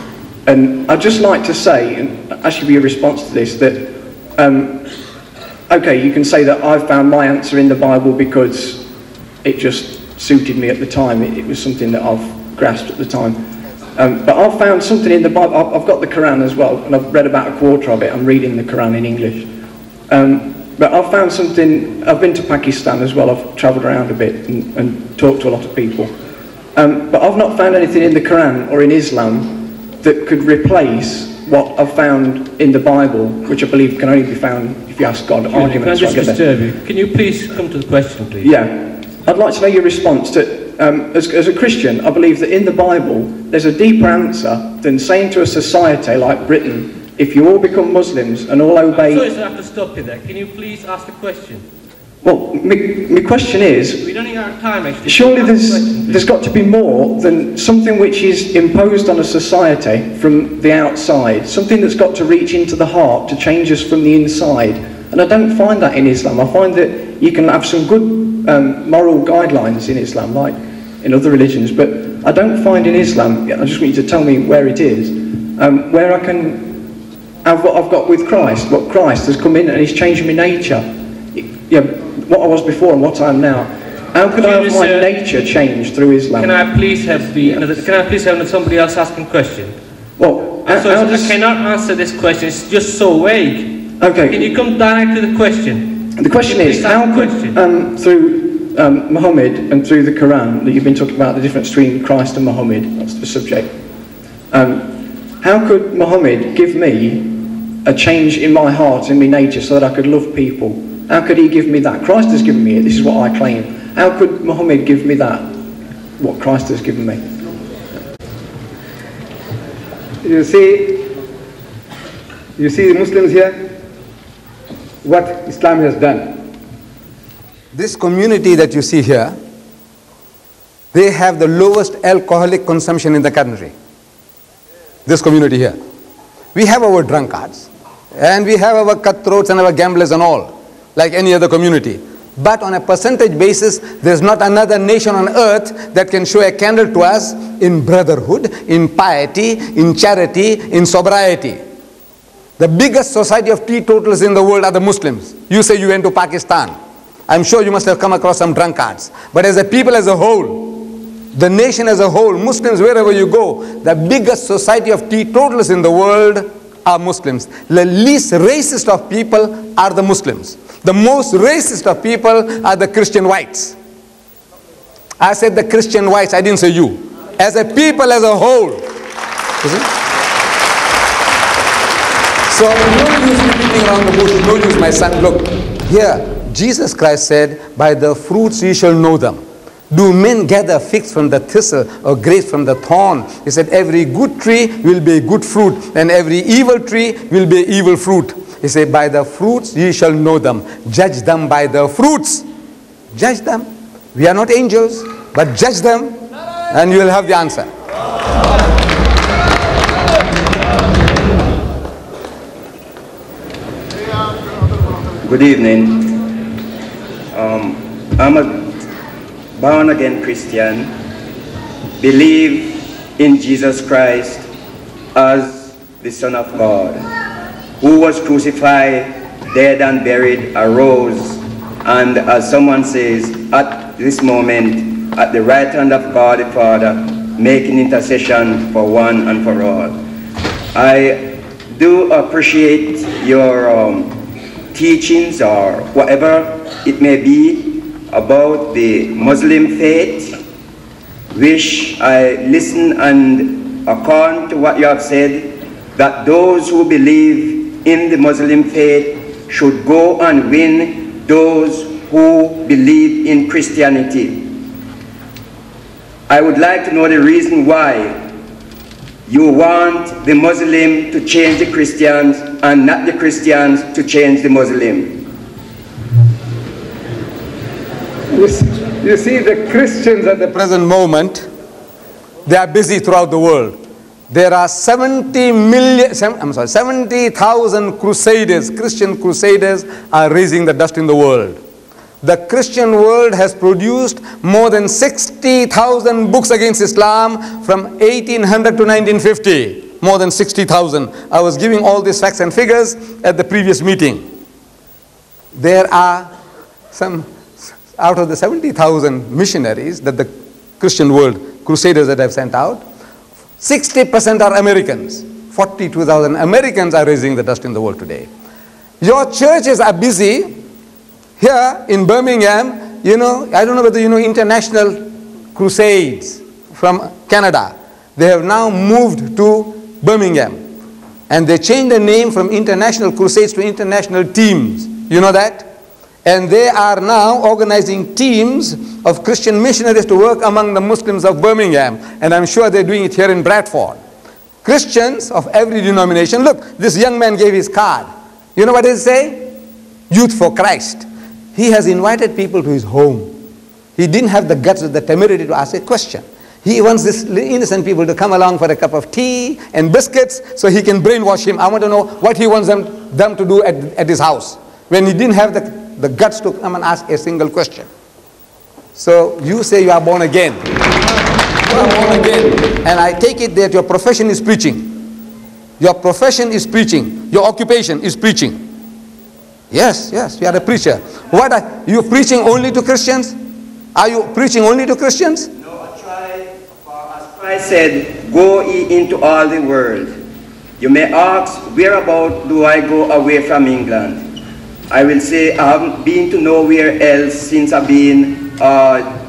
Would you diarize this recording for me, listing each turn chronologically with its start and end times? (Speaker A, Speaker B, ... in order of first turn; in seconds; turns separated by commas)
Speaker A: 0.5-4.9, Speaker A: 5.7-8.9, Speaker A: 9.4-13.4, Speaker A: 13.9-19.5, Speaker A: 20.1-26.1, Speaker A: 26.8-36.4, Speaker B: 35.5-38.6, Speaker A: 38.4-49.4, Speaker B: 48.9-51.6, Speaker A: 52.2-54.0, Speaker B: 54.0-56.3, Speaker A: 55.0-76.8, Speaker A: 77.4-88.0, Speaker B: 84.3-85.3, Speaker B: 86.3-89.8, Speaker A: 90.2-91.4, Speaker B: 90.4-97.6, Speaker A: 94.0-94.6, Speaker A: 96.1-103.7, Speaker A: 104.5-107.3, Speaker A: 107.8-115.5, Speaker A: 116.2-117.2, Speaker C: 120.2-121.0, Speaker C: 122.6-123.6, Speaker C: 125.0-126.4, Speaker C: 127.7-129.3, Speaker C: 130.9-133.7, Speaker C: 135.1-135.8, Speaker C: 136.5-151.6, Speaker C: 152.6-156.7, Speaker C: 157.3-173.8, Speaker C: 175.2-178.8, Speaker C: 179.6-179.9, Speaker C: 182.5-202.4, Speaker C: 203.1-206.2, Speaker C: 206.7-207.7, Speaker D: 215.2-216.2, Speaker D: 217.3-218.7, Speaker D: 219.6-220.9, Speaker D: 222.0-224.5, Speaker D: 225.1-227.1, Speaker D: 227.8-240.0, Speaker D: 240.7-244.2, Speaker D: 244.7-250.4, Speaker D: 251.3-264.6, Speaker D: 266.3-268.2, Speaker D: 269.3-275.2, Speaker C: 278.3-281.5, Speaker C: 282.4-283.8, Speaker C: 284.3-291.6, Speaker C: 292.2-304.2, Speaker C: 305.5-306.3, Speaker C: 306.9-312.8, Speaker C: 313.6-318.3, Speaker C: 319.0-320.5, Speaker C: 321.4-330.6, Speaker C: 331.3-335.7, Speaker C: 336.2-344.0, Speaker C: 344.6-349.5, Speaker C: 350.1-353.3, Speaker C: 354.0-367.9, Speaker C: 368.9-370.7, Speaker C: 371.7-375.0, Speaker C: 375.8-378.6, Speaker C: 379.7-383.3, Speaker C: 383.9-385.5, Speaker D: 385.6-390.1, Speaker D: 390.8-394.2, Speaker D: 394.9-399.1